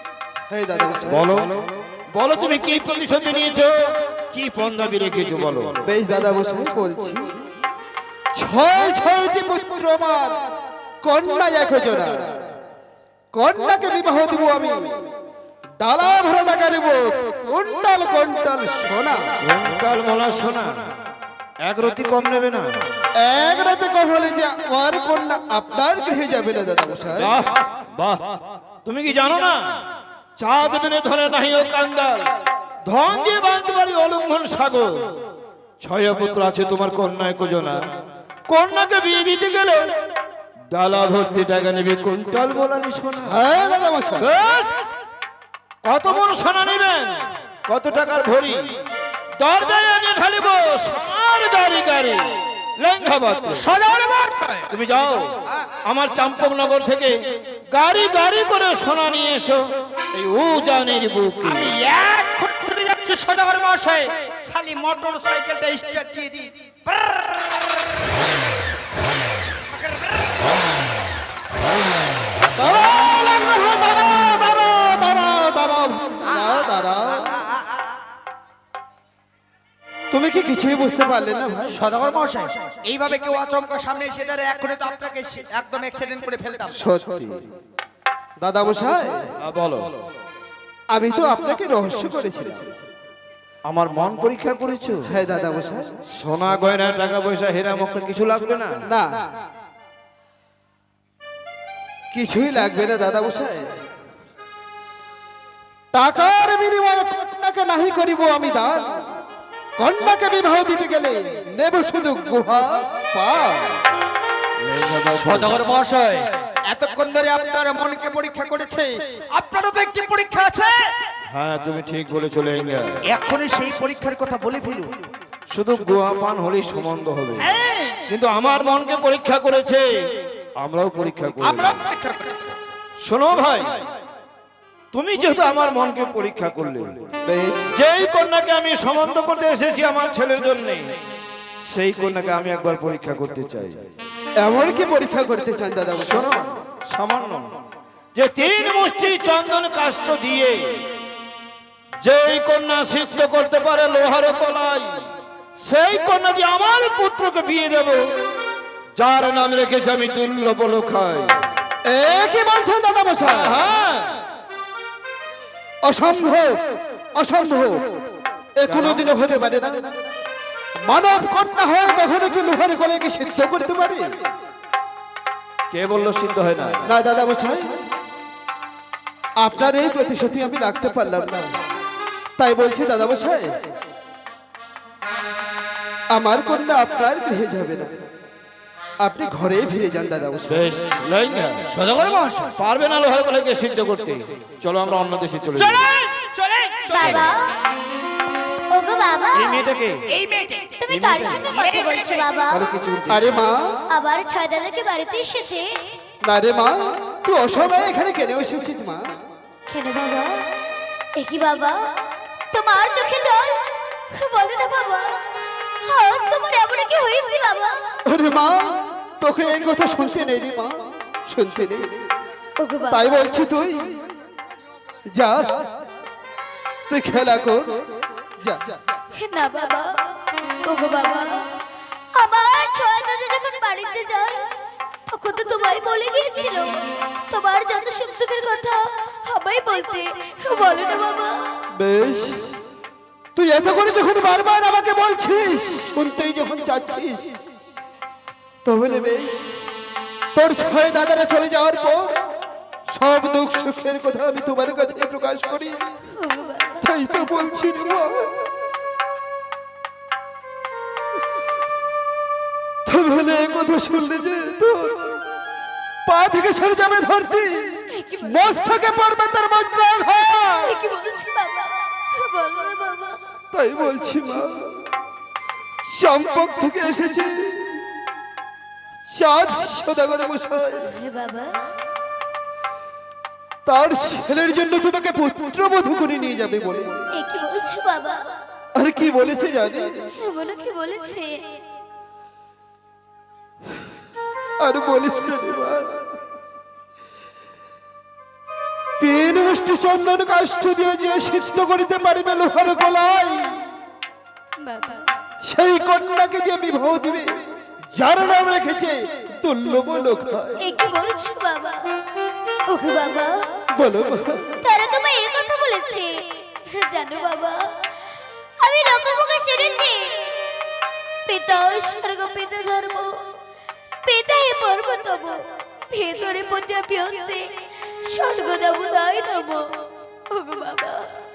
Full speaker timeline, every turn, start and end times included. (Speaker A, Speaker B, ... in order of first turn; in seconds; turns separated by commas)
Speaker A: 0.5-1.4, Speaker B: 1.1-5.8, Speaker A: 5.8-7.3, Speaker A: 8.3-10.4, Speaker A: 11.0-12.4, Speaker A: 13.3-14.9, Speaker A: 15.8-19.3, Speaker B: 19.4-20.8, Speaker B: 21.6-22.8, Speaker A: 23.2-27.3, Speaker B: 27.2-29.8, Speaker B: 30.4-32.3, Speaker B: 32.8-35.0, Speaker B: 35.8-37.8, Speaker B: 38.5-39.9, Speaker B: 40.7-43.4, Speaker A: 43.2-44.3, Speaker B: 44.2-44.9, Speaker B: 45.8-48.7, Speaker B: 49.4-53.7, Speaker C: 53.5-54.7, Speaker B: 54.7-55.3, Speaker B: 55.8-57.2, Speaker B: 57.7-61.7, Speaker C: 61.4-67.8, Speaker C: 69.7-70.4, Speaker A: 72.5-77.3, Speaker C: 76.3-76.7, Speaker A: 80.1-81.8, Speaker C: 81.7-86.8, Speaker A: 86.7-87.4, Speaker A: 88.4-89.3, Speaker B: 89.4-90.0, Speaker A: 90.9-92.7, Speaker B: 93.7-95.1, Speaker A: 95.1-95.9, Speaker B: 96.1-98.8, Speaker A: 98.9-99.2, Speaker A: 102.1-103.7, Speaker A: 105.9-109.0, Speaker A: 109.8-113.8, Speaker B: 114.6-115.7, Speaker C: 115.2-121.0, Speaker B: 121.3-123.0, Speaker C: 123.1-125.1, Speaker B: 125.5-127.5, Speaker C: 127.4-128.0, Speaker B: 128.1-129.8, Speaker B: 130.6-131.8, Speaker C: 131.4-132.4, Speaker B: 133.0-133.8, Speaker B: 134.9-137.0, Speaker A: 137.2-137.7, Speaker B: 137.7-140.9, Speaker B: 141.7-143.9, Speaker A: 144.4-146.3, Speaker B: 146.0-147.5, Speaker B: 148.1-150.8, Speaker B: 152.0-155.0, Speaker B: 155.6-158.1, Speaker B: 158.9-161.4, Speaker A: 161.9-163.6, Speaker B: 163.2-164.2, Speaker A: 165.8-166.6, Speaker A: 167.2-167.8, Speaker A: 168.6-169.9, Speaker B: 168.7-169.0, Speaker A: 170.8-174.1, Speaker B: 175.7-176.8, Speaker A: 176.8-177.7, Speaker A: 179.4-181.5, Speaker A: 182.4-183.5, Speaker A: 186.1-188.0, Speaker A: 189.0-190.6, Speaker B: 190.5-191.7, Speaker C: 191.7-192.5, Speaker B: 192.6-195.8, Speaker C: 195.6-197.3, Speaker D: 196.9-197.5, Speaker D: 198.7-199.7, Speaker B: 199.3-200.1, Speaker C: 200.1-200.8, Speaker D: 200.8-202.7, Speaker B: 200.9-201.5, Speaker C: 201.4-202.2, Speaker B: 202.5-203.4, Speaker A: 203.1-203.8, Speaker D: 203.9-205.8, Speaker A: 206.2-209.1, Speaker D: 209.7-210.5, Speaker D: 211.2-211.9, Speaker D: 212.5-215.2, Speaker D: 215.8-217.9, Speaker A: 218.1-221.9, Speaker D: 222.6-223.1, Speaker A: 222.9-223.9, Speaker A: 225.1-225.7, Speaker A: 226.9-227.8, Speaker A: 228.4-228.8, Speaker D: 229.2-229.9, Speaker D: 230.6-231.4, Speaker D: 232.1-234.5, Speaker D: 235.1-241.4, Speaker A: 241.8-242.5, Speaker A: 243.3-247.3, Speaker A: 248.6-249.6, Speaker A: 250.3-252.2, Speaker A: 252.9-255.9, Speaker D: 256.1-256.9, Speaker A: 256.8-258.4, Speaker A: 262.9-265.2, Speaker A: 266.0-270.8, Speaker D: 267.9-268.6, Speaker D: 270.6-273.2, Speaker A: 273.5-274.9, Speaker A: 275.9-277.8, Speaker A: 279.1-280.9, Speaker D: 280.9-281.6, Speaker A: 283.6-287.1, Speaker D: 287.1-288.2, Speaker A: 288.7-290.1, Speaker D: 290.2-291.4, Speaker A: 294.6-296.2, Speaker A: 299.0-303.6, Speaker D: 304.6-305.1, Speaker A: 305.4-307.4, Speaker A: 307.9-310.6, Speaker D: 310.6-311.9, Speaker D: 312.6-313.4, Speaker A: 313.7-314.6, Speaker D: 314.6-317.7, Speaker D: 318.6-320.4, Speaker D: 321.2-323.2, Speaker D: 324.0-327.5, Speaker D: 328.0-329.6, Speaker D: 330.3-331.1